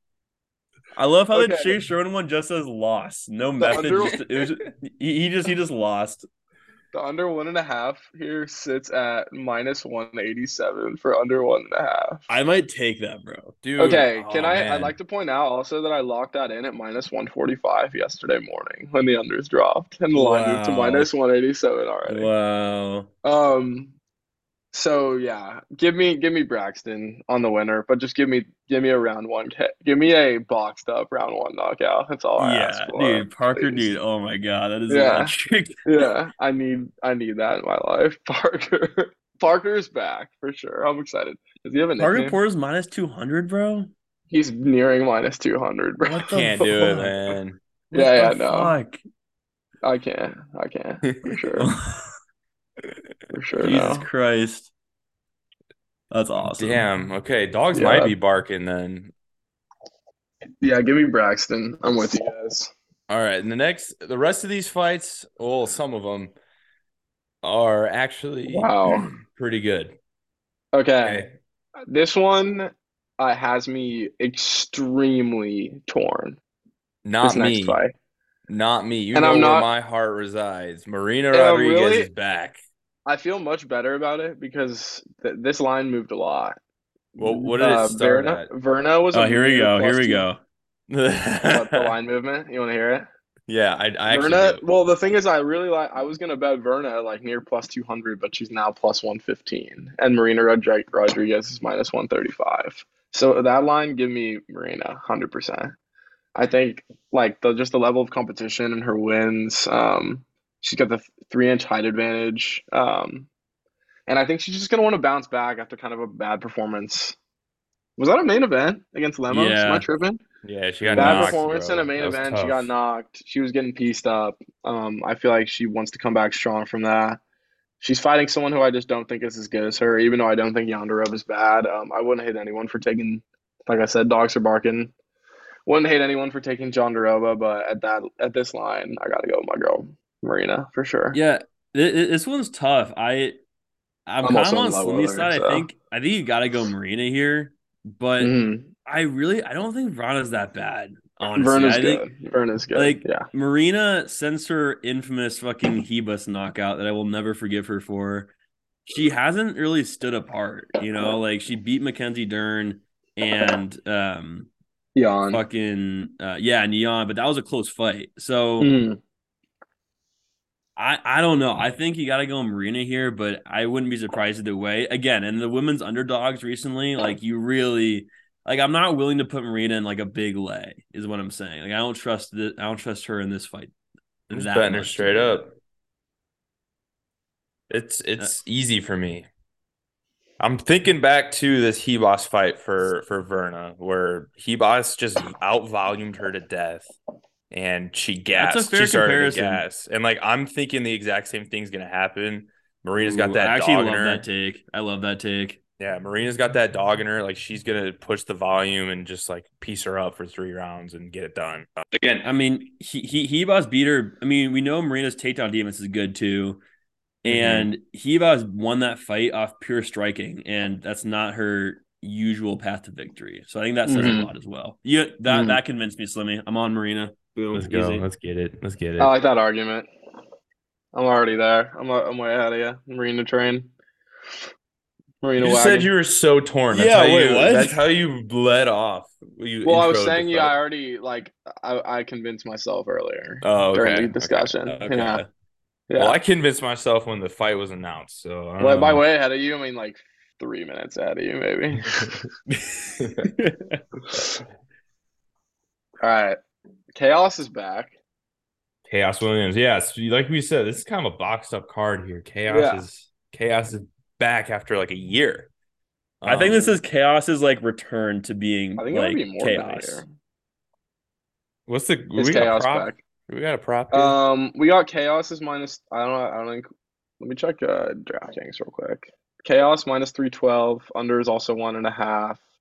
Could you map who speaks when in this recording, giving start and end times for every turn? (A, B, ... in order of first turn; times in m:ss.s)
0:00.9-0:06.2 A
0:01.3-0:01.7 B
0:03.6-0:04.2 B
0:06.9-0:12.3 B
0:12.3-0:13.6 A
0:13.6-0:14.9 C
0:13.8-0:22.3 B
0:20.1-0:21.1 A
0:22.1-0:23.1 A
0:23.2-0:23.9 B
0:24.7-0:33.9 B
0:32.4-0:36.1 A
0:34.9-0:35.3 B
0:35.8-0:42.4 B
0:42.0-0:43.9 A
0:44.3-0:46.4 B
0:46.1-0:47.1 A
0:46.3-0:47.6 C
0:47.9-0:48.7 B
0:47.9-0:49.0 A
0:49.8-0:51.7 B
0:51.1-0:51.3 C
0:53.3-0:54.0 B
0:53.6-0:54.7 A
0:56.1-0:56.8 A
0:56.4-0:59.1 C
0:57.7-0:58.1 B
1:00.6-1:02.7 B
1:03.1-1:06.3 C
1:07.4-1:10.0 C
1:08.5-1:09.1 B
1:10.7-1:11.2 B
1:11.0-1:11.3 C
1:11.8-1:16.4 B
1:17.0-1:17.8 C
1:17.2-1:17.9 B
1:18.5-1:22.6 C
1:19.1-1:19.7 B
1:21.3-1:22.1 B
1:23.0-1:26.6 B
1:27.2-1:30.2 B
1:27.2-1:28.5 C
1:29.1-1:30.4 A
1:30.9-1:31.9 C
1:31.4-1:33.1 B
1:33.5-1:34.6 C
1:34.1-1:45.7 B
1:46.3-1:53.3 B
1:54.1-1:57.2 B
1:58.0-2:00.2 B
1:59.3-1:59.8 A
2:00.4-2:02.7 C
2:00.8-2:01.4 A
2:00.9-2:07.2 B
2:07.8-2:14.9 B
2:15.6-2:21.2 B
2:21.1-2:23.4 A
2:24.1-2:28.3 A
2:24.2-2:25.7 B
2:28.2-2:28.7 B
2:28.8-2:32.0 A
2:31.4-2:33.2 B
2:32.7-2:38.3 A
2:38.9-2:44.5 A
2:44.9-2:45.4 B
2:45.3-2:48.7 A
2:48.6-2:49.0 B
2:50.8-3:03.7 A
3:04.3-3:05.4 A
3:04.3-3:05.5 C
3:07.7-3:09.3 C
3:10.4-3:16.9 C
3:17.5-3:24.2 C
3:18.3-3:19.6 A
3:23.0-3:25.6 A
3:25.8-3:32.3 C
3:32.2-3:36.6 A
3:37.2-3:48.0 A
3:37.2-3:37.7 C
3:43.8-3:44.3 B
3:45.3-3:45.6 B
3:47.5-3:49.1 C
3:49.0-3:49.9 B
3:50.9-3:53.7 B
3:55.2-3:55.9 B
3:55.4-4:00.6 C
3:56.7-3:57.8 A
3:59.6-4:05.2 B
4:03.4-4:04.5 C
4:04.6-4:05.3 A
4:05.9-4:06.2 B
4:06.0-4:09.0 C
4:08.6-4:12.2 B
4:13.0-4:13.2 C
4:13.2-4:13.8 A
4:14.1-4:14.4 B
4:16.0-4:16.4 B
4:16.9-4:17.9 B
4:18.9-4:25.5 C
4:22.5-4:22.8 B
4:26.2-4:26.8 C
4:26.2-4:30.0 A
4:28.8-4:30.1 B
4:31.7-4:34.2 C
4:32.2-4:33.0 B
4:33.9-4:36.7 B
4:37.2-4:42.4 B